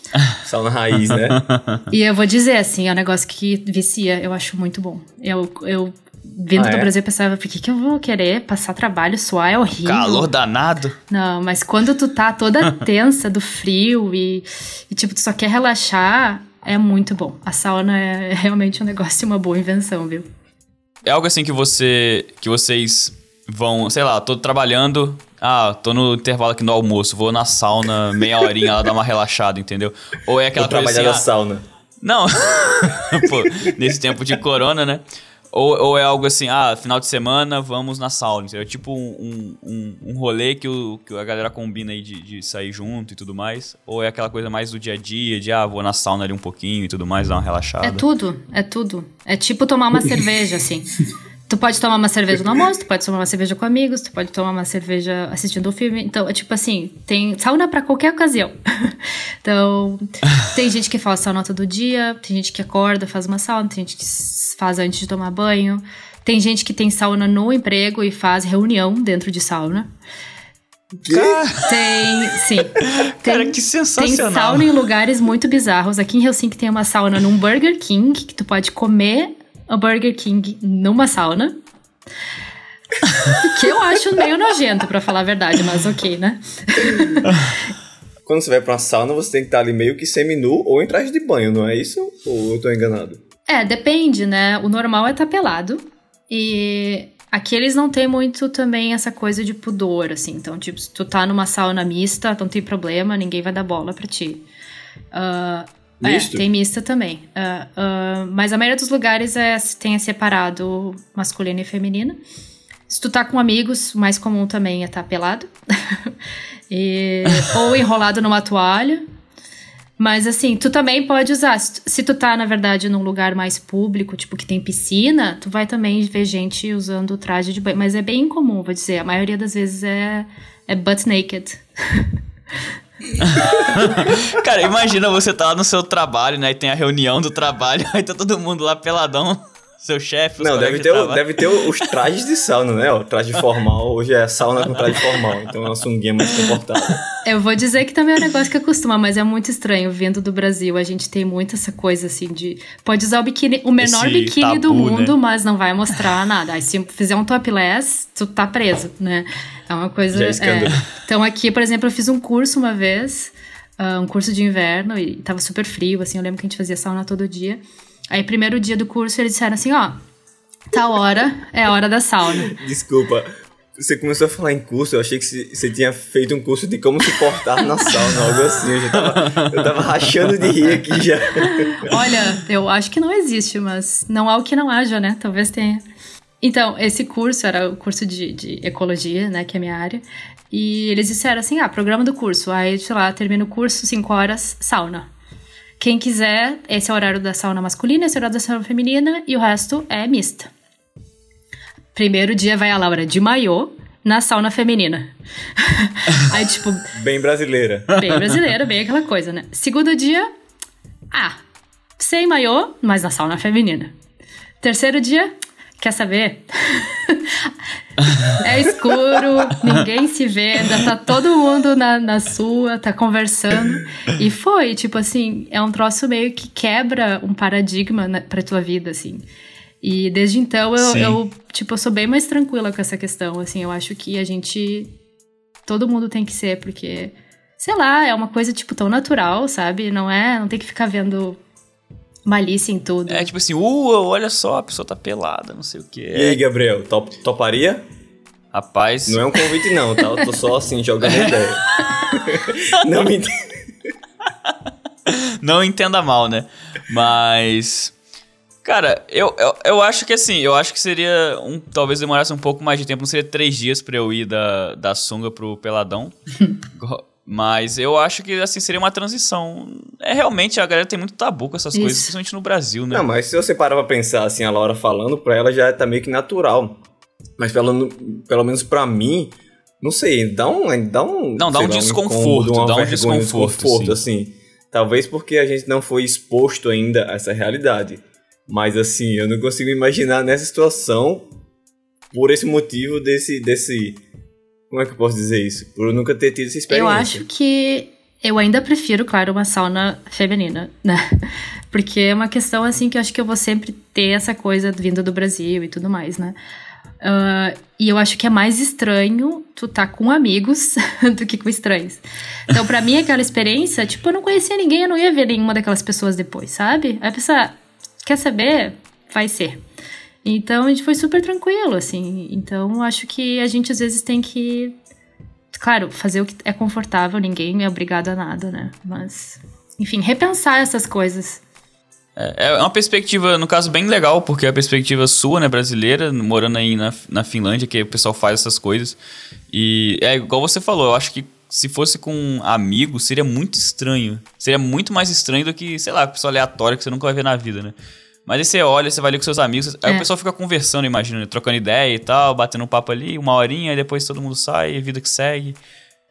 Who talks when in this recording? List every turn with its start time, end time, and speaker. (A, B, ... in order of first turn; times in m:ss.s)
0:00.4-0:01.4 A
0:01.3-0:01.8 B
0:01.9-0:10.3 C
0:06.5-0:06.9 A
0:09.8-0:11.0 B
0:11.1-0:20.2 C
0:21.0-0:31.2 B
0:30.5-0:31.6 A
0:32.0-0:35.0 B
0:35.5-0:48.0 B
0:47.8-0:50.9 C
0:51.5-1:09.9 C
1:11.0-1:11.4 A
1:11.1-1:11.9 B
1:11.6-1:21.5 C
1:13.1-1:14.7 B
1:23.4-1:27.5 C
1:28.2-1:33.2 A
1:33.5-1:44.4 C
1:45.1-1:52.2 C
1:46.0-1:46.4 A
1:52.9-1:56.1 C
1:56.7-1:59.0 C
2:00.0-2:12.1 C
2:13.2-2:21.7 B
2:20.4-2:27.0 A
2:27.2-2:47.6 C
2:33.8-2:35.2 B
2:40.1-2:40.8 A
2:48.1-2:50.0 C
2:50.7-2:52.5 C
2:52.4-3:01.9 A
2:59.1-2:59.6 B
3:01.4-3:05.8 C
3:06.4-3:15.1 C
3:15.8-3:20.5 C
3:21.9-3:26.9 C
3:26.9-3:28.0 A
3:27.9-3:30.3 C
3:31.1-3:31.4 C
3:32.0-3:33.9 C
3:34.6-3:37.5 C
3:38.3-3:49.2 C
3:49.8-3:54.9 C
3:50.8-3:51.2 B
3:55.7-4:01.4 C
4:02.2-4:03.3 C
4:03.1-4:06.4 B
4:06.1-4:07.8 A
4:08.5-4:09.5 B
4:09.1-4:13.3 A
4:11.0-4:12.1 B
4:15.0-4:17.9 B
4:18.6-4:26.1 B
4:26.8-4:33.0 B
4:31.7-4:32.1 C
4:32.9-4:36.8 A
4:37.4-4:51.3 A
4:41.4-4:44.0 B
4:52.1-4:54.0 A
4:54.7-4:57.2 A
4:56.7-5:01.1 C
5:01.7-5:06.4 C
5:07.0-5:19.6 C
5:20.2-5:24.7 C
5:25.5-5:31.4 C
5:32.2-5:39.0 B
5:39.5-5:47.7 B
5:48.2-5:55.6 B